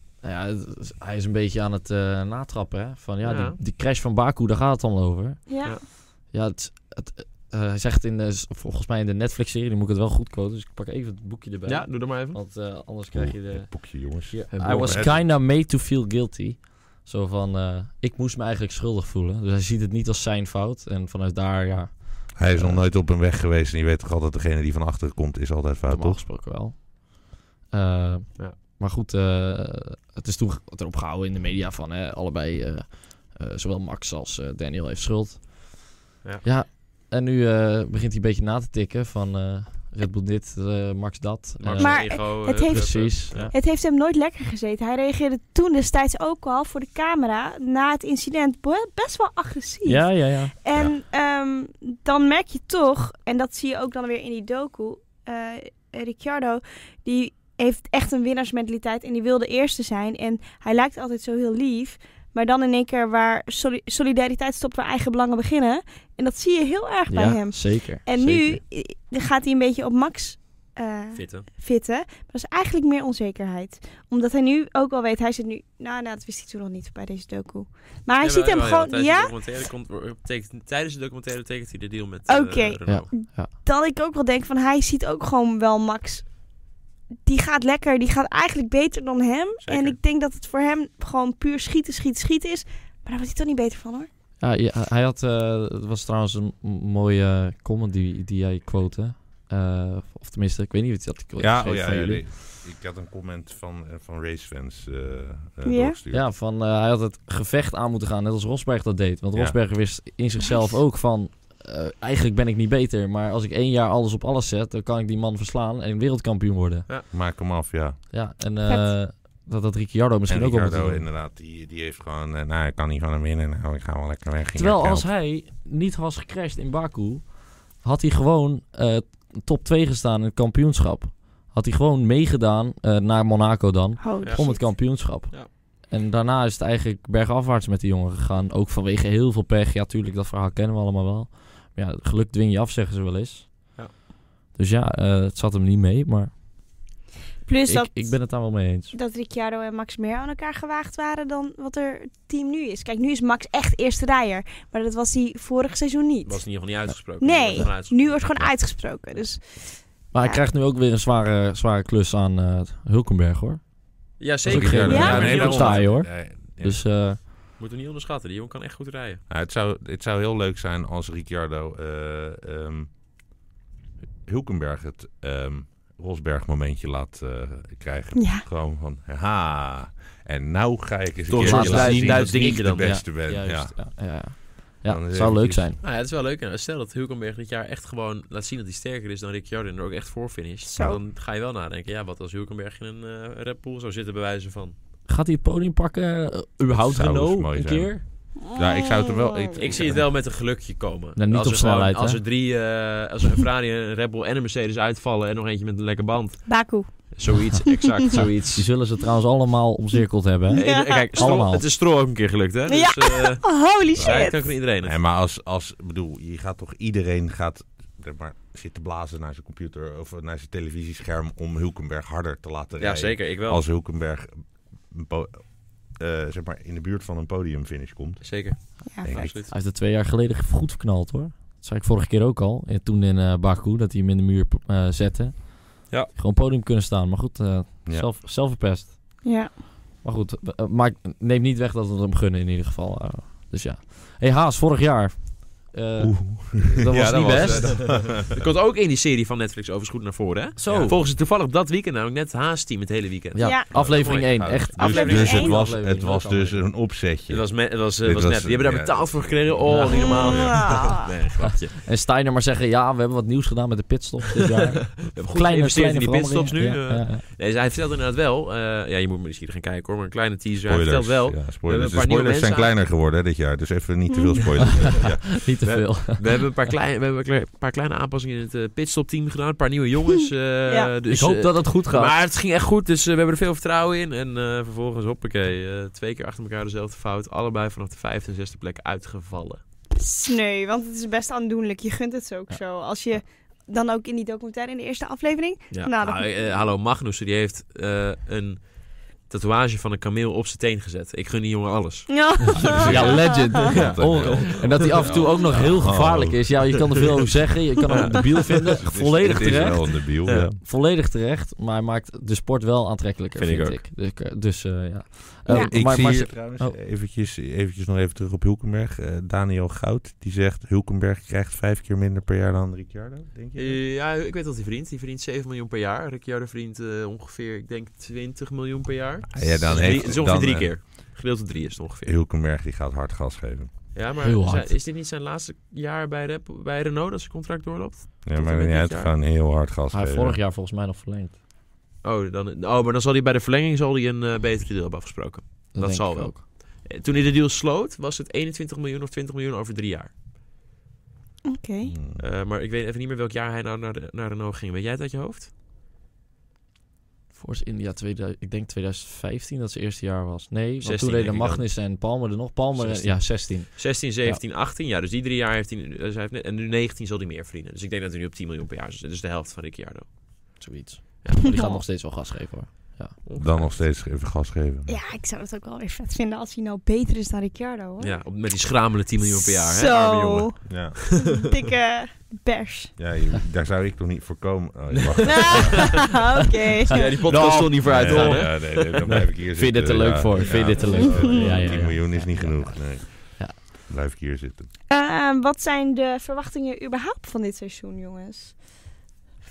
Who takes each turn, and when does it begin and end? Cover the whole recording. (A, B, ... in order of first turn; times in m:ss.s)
0:00.2-0:22.9 A
0:03.2-0:03.6 B
0:05.5-0:05.8 C
0:11.7-0:12.4 B
0:13.1-0:15.2 D
0:14.5-0:15.2 B
0:22.4-0:26.2 D
0:25.9-0:43.5 A
0:41.6-0:43.5 B
0:41.8-1:19.3 C
0:49.8-0:50.5 A
1:07.1-1:08.6 A
1:11.1-1:11.5 B
1:18.2-1:23.1 B
1:22.3-1:26.4 C
1:22.9-1:23.5 A
1:27.2-1:34.1 C
1:29.6-1:30.0 B
1:34.4-1:42.2 A
1:41.4-1:46.3 D
1:45.6-1:46.0 C
1:46.1-1:56.9 A
1:50.4-1:50.8 C
1:57.1-1:58.0 D
1:58.1-2:01.1 A
1:58.7-1:58.9 C
2:00.3-2:05.1 D
2:04.6-2:23.8 A
2:14.0-2:14.7 C
2:14.2-2:15.5 B
2:24.5-2:26.4 A
2:27.4-2:36.6 C
2:27.7-2:28.9 A
2:36.2-2:38.5 B
2:37.2-2:40.4 C
2:40.1-2:47.2 A
2:44.2-2:45.8 B
2:44.4-2:46.8 D
2:44.9-2:45.4 C
2:47.6-2:49.2 B
2:49.3-2:52.9 D
2:54.2-3:04.0 D
2:58.2-2:58.4 C
3:01.3-3:03.0 B
3:01.4-3:05.8 A
3:04.8-3:05.7 D
3:05.8-3:14.8 B
3:10.6-3:11.0 C
3:15.1-3:18.0 A
3:16.7-3:20.1 D
3:18.5-3:19.6 C
3:19.6-3:28.7 B
3:21.2-3:22.2 A
3:26.5-3:27.6 C
3:28.1-3:31.7 A
3:30.5-3:31.4 C
3:30.5-3:35.0 B
3:32.7-3:34.4 C
3:34.8-3:49.4 D
3:42.8-3:43.6 B
3:48.2-3:49.5 B
3:48.9-3:49.1 C
3:49.5-4:08.0 A
3:59.2-3:59.6 C
4:06.0-4:08.4 D
4:07.3-4:15.5 B
4:10.6-4:11.0 A
4:10.7-4:11.0 D
4:13.3-4:16.7 A
4:13.4-4:14.2 C
4:13.7-4:21.0 D
4:14.8-4:15.6 C
4:17.3-4:21.8 B
4:19.7-4:20.2 A
4:19.9-4:21.0 C
4:21.8-4:27.2 A
4:25.0-4:32.7 B
4:30.6-4:36.1 D
4:34.1-4:34.5 C
4:34.8-4:36.5 A
4:36.2-4:49.6 B
4:41.1-4:42.2 A
4:50.0-4:56.5 C
4:55.7-5:03.0 B
5:02.1-5:03.5 C
5:02.6-5:06.8 D
5:02.8-5:16.8 A
5:03.7-5:05.3 B
5:07.9-5:08.8 B
5:08.7-5:10.6 D
5:13.4-5:13.8 B
5:15.5-5:15.7 C
5:15.5-5:23.8 D
5:23.6-5:32.2 B
5:29.3-5:30.7 D
5:29.7-5:30.0 A
5:32.0-5:33.7 D
5:33.9-5:39.1 B
5:34.2-5:34.8 A
5:38.2-5:40.4 D
5:39.9-5:41.4 A
5:42.0-5:50.1 B
5:45.8-5:46.4 A
5:51.5-5:51.9 C
5:51.8-5:52.2 D
5:52.2-5:55.5 B
5:57.3-6:04.4 A
6:00.8-6:01.7 B
6:02.8-6:10.6 B
6:10.6-6:13.2 A
6:11.2-6:11.8 B
6:11.5-6:11.8 C
6:13.2-6:13.8 B
6:13.4-6:15.0 D
6:14.9-6:18.3 C
6:18.0-6:21.4 B
6:19.2-6:23.0 C
6:20.7-6:21.0 D
6:23.0-6:26.1 D
6:25.0-6:26.0 B
6:25.2-6:27.4 C
6:26.9-6:29.2 B
6:27.1-6:33.6 A
6:27.8-6:34.7 D
6:30.4-6:31.1 B
6:30.8-6:31.8 C
6:34.9-6:38.6 C